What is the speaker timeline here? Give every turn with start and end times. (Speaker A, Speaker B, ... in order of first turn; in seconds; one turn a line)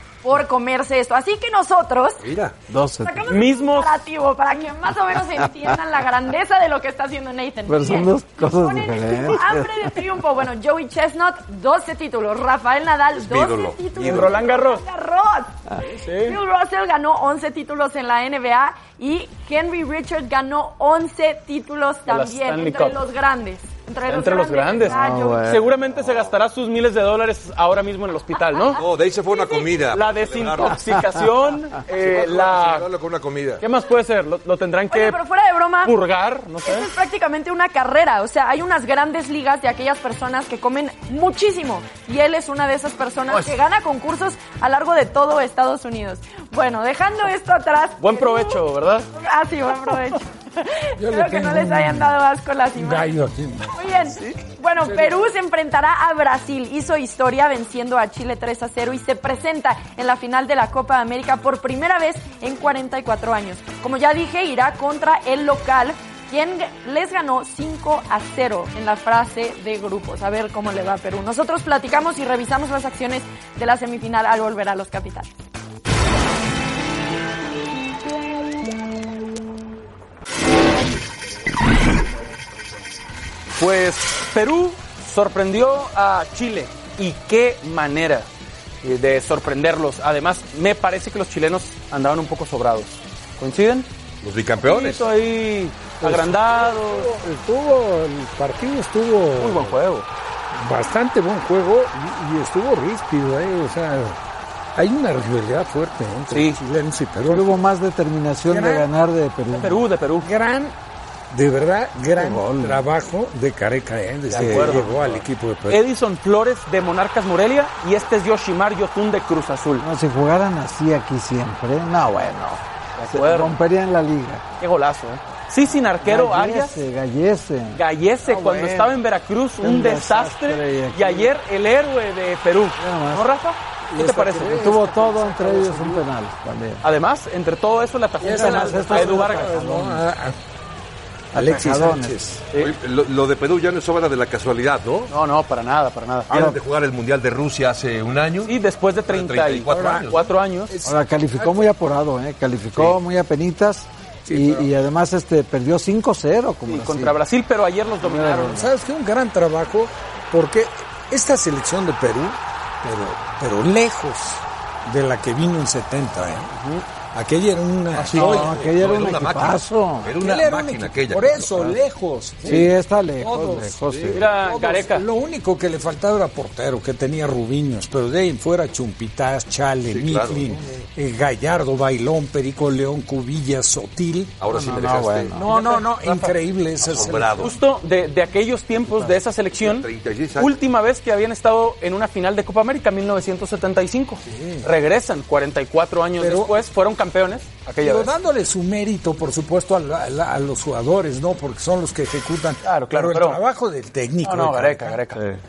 Speaker A: 0.2-2.3
Speaker B: 2.2-2.5
Speaker C: 2.7-3.3
Speaker A: 3.0-15.6
Speaker D: 3.3-4.0
Speaker C: 7.7-9.7
Speaker B: 13.2-14.3
Speaker D: 14.0-14.8
Speaker D: 16.0-16.4
Speaker A: 16.2-25.5
Speaker D: 22.1-23.0
Speaker D: 24.1-28.8
Speaker C: 24.9-25.6
Speaker A: 28.5-29.7
Speaker B: 28.8-31.0
Speaker D: 29.9-32.9
Speaker B: 31.9-33.6
Speaker D: 33.6-35.2
Speaker A: 34.9-36.0
Speaker D: 35.8-36.9
Speaker A: 36.6-48.6
Speaker D: 43.3-43.5
Speaker D: 48.0-49.1
Speaker A: 49.1-53.1
Speaker E: 51.0-52.1
Speaker E: 52.7-53.8
Speaker A: 53.7-75.3
Speaker D: 83.6-88.3
Speaker D: 88.8-93.9
Speaker B: 94.2-95.1
Speaker D: 94.6-97.1
Speaker E: 96.0-99.8
Speaker D: 99.4-100.1
Speaker E: 100.5-104.2
Speaker E: 104.8-107.5
Speaker D: 106.3-106.6
Speaker C: 107.3-109.8
Speaker E: 108.5-108.9
Speaker D: 109.6-110.3
Speaker E: 110.2-110.7
Speaker E: 111.3-115.8
Speaker C: 112.2-112.8
Speaker D: 114.3-119.9
Speaker C: 114.4-114.9
Speaker C: 119.8-124.4
Speaker D: 123.0-123.6
Speaker D: 124.6-126.8
Speaker C: 126.0-129.0
Speaker D: 127.7-134.8
Speaker C: 129.6-131.3
Speaker C: 132.8-133.3
Speaker E: 134.0-136.0
Speaker C: 134.0-136.8
Speaker D: 136.8-139.5
Speaker E: 138.2-140.3
Speaker C: 138.3-140.0
Speaker E: 141.3-142.3
Speaker C: 141.3-142.4
Speaker B: 142.6-145.1
Speaker D: 145.1-146.3
Speaker B: 146.3-148.6
Speaker C: 146.3-146.6
Speaker D: 148.5-150.7
Speaker B: 149.1-150.2
Speaker E: 149.7-150.1
Speaker E: 150.7-151.6
Speaker C: 150.8-157.2
Speaker D: 156.7-158.6
Speaker C: 158.0-158.7
Speaker E: 158.5-166.5
Speaker D: 166.6-166.8
Speaker E: 167.1-168.6
Speaker B: 167.9-171.8
Speaker C: 168.0-170.1
Speaker E: 170.2-173.8
Speaker C: 172.4-174.3
Speaker D: 174.1-175.1
Speaker E: 174.3-184.3
Speaker B: 179.8-180.5
Speaker B: 184.4-185.4
Speaker C: 184.5-185.4
Speaker E: 185.4-187.5
Speaker D: 185.4-186.3
Speaker B: 186.8-187.6
Speaker D: 187.4-198.1
Speaker B: 189.6-190.6
Speaker E: 194.3-194.7
Speaker E: 196.2-196.6
Speaker E: 197.8-205.0
Speaker D: 202.7-203.4
Speaker D: 204.2-205.2